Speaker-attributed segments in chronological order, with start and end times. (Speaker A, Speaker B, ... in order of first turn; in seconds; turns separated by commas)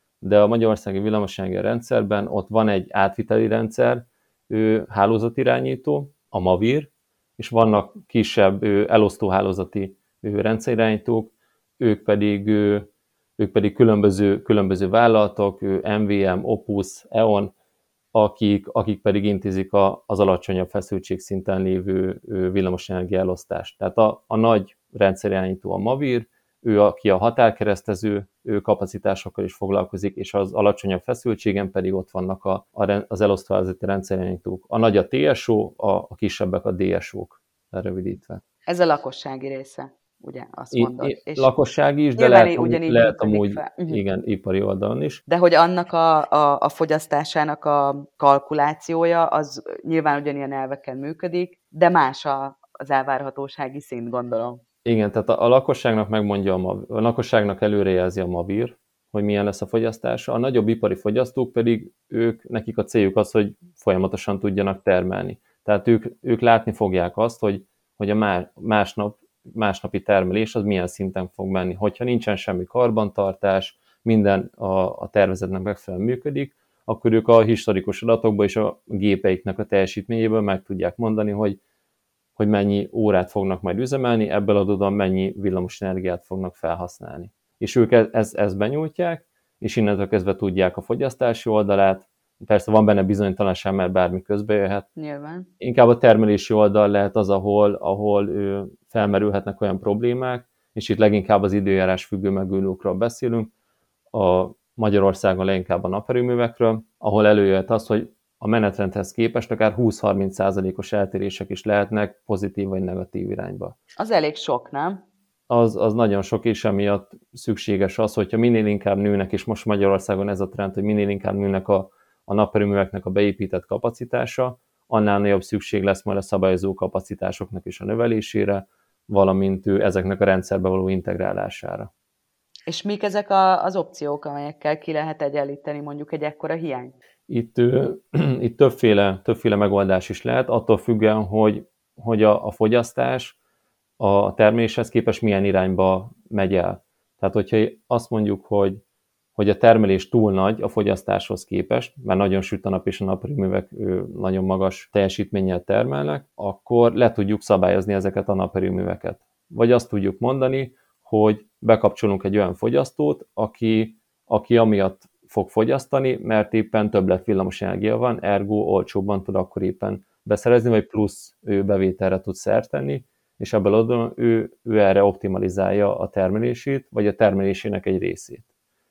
Speaker A: 0.2-17.5, Speaker A: 18.1-38.4, Speaker B: 38.7-41.5, Speaker A: 40.7-45.2, Speaker B: 42.2-44.0, Speaker B: 45.3-54.6, Speaker A: 54.8-81.6, Speaker A: 82.4-94.9, Speaker B: 95.0-95.5, Speaker A: 95.6-103.5, Speaker A: 104.1-113.7, Speaker B: 114.0-115.0, Speaker A: 115.5-131.9, Speaker B: 132.7-136.9, Speaker A: 137.3-143.3, Speaker A: 144.0-148.8, Speaker A: 149.3-178.4